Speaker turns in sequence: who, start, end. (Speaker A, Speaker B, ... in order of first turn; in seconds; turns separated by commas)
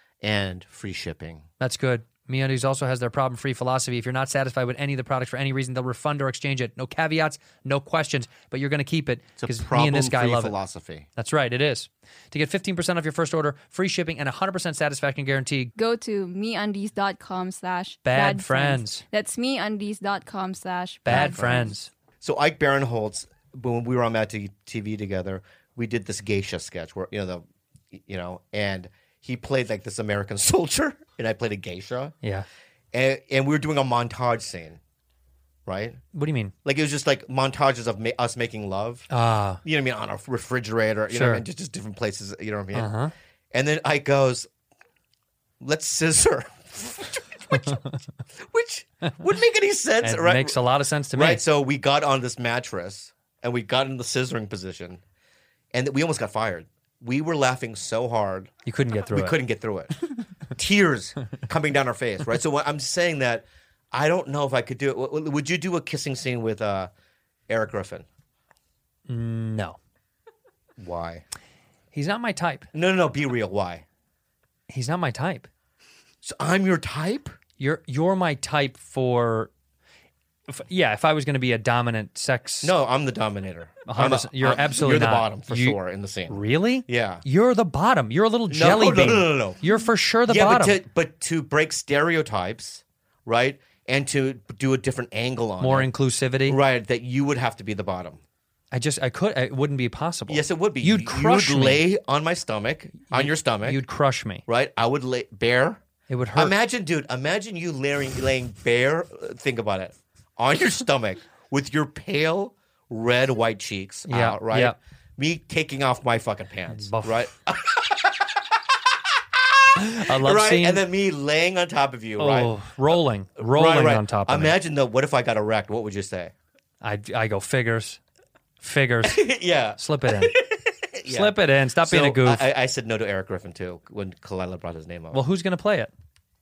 Speaker A: 0.2-1.5, Speaker B: 1.6-10.6, Speaker A: 9.4-11.1, Speaker B: 11.2-15.7, Speaker C: 15.8-21.7, Speaker B: 18.0-19.0, Speaker B: 21.1-21.9, Speaker A: 21.1-32.1, Speaker A: 32.9-34.8, Speaker A: 35.7-36.0, Speaker B: 36.1-36.5, Speaker A: 36.6-39.1, Speaker B: 39.1-39.6, Speaker A: 39.6-42.9, Speaker B: 41.1-41.4, Speaker B: 42.7-43.1, Speaker A: 43.5-44.5, Speaker A: 45.6-47.8, Speaker B: 47.6-47.9, Speaker A: 48.4-50.6, Speaker B: 50.0-51.4, Speaker A: 51.1-55.0, Speaker A: 55.7-58.5, Speaker B: 58.7-59.4, Speaker A: 59.1-60.0, Speaker A: 60.5-66.9, Speaker A: 67.5-68.1, Speaker B: 69.1-69.8, Speaker A: 70.8-71.2, Speaker B: 71.9-72.7, Speaker A: 72.7-73.8, Speaker B: 74.7-75.5, Speaker A: 76.2-77.4, Speaker B: 77.6-79.5, Speaker B: 80.5-82.7, Speaker A: 82.6-87.2, Speaker B: 83.9-85.8, Speaker B: 86.3-90.8, Speaker A: 88.5-89.6, Speaker A: 90.3-95.9, Speaker B: 95.6-96.6, Speaker A: 96.5-98.2, Speaker B: 98.7-101.8, Speaker A: 100.3-103.8, Speaker B: 103.1-104.4, Speaker A: 104.5-105.8, Speaker B: 106.1-106.5, Speaker A: 106.3-118.6, Speaker B: 114.1-114.8, Speaker B: 116.7-117.2, Speaker A: 119.1-126.3, Speaker B: 119.8-120.8, Speaker B: 122.2-124.6, Speaker B: 126.8-128.0, Speaker B: 128.6-130.3, Speaker A: 129.0-135.2, Speaker B: 131.1-132.5, Speaker B: 135.1-135.9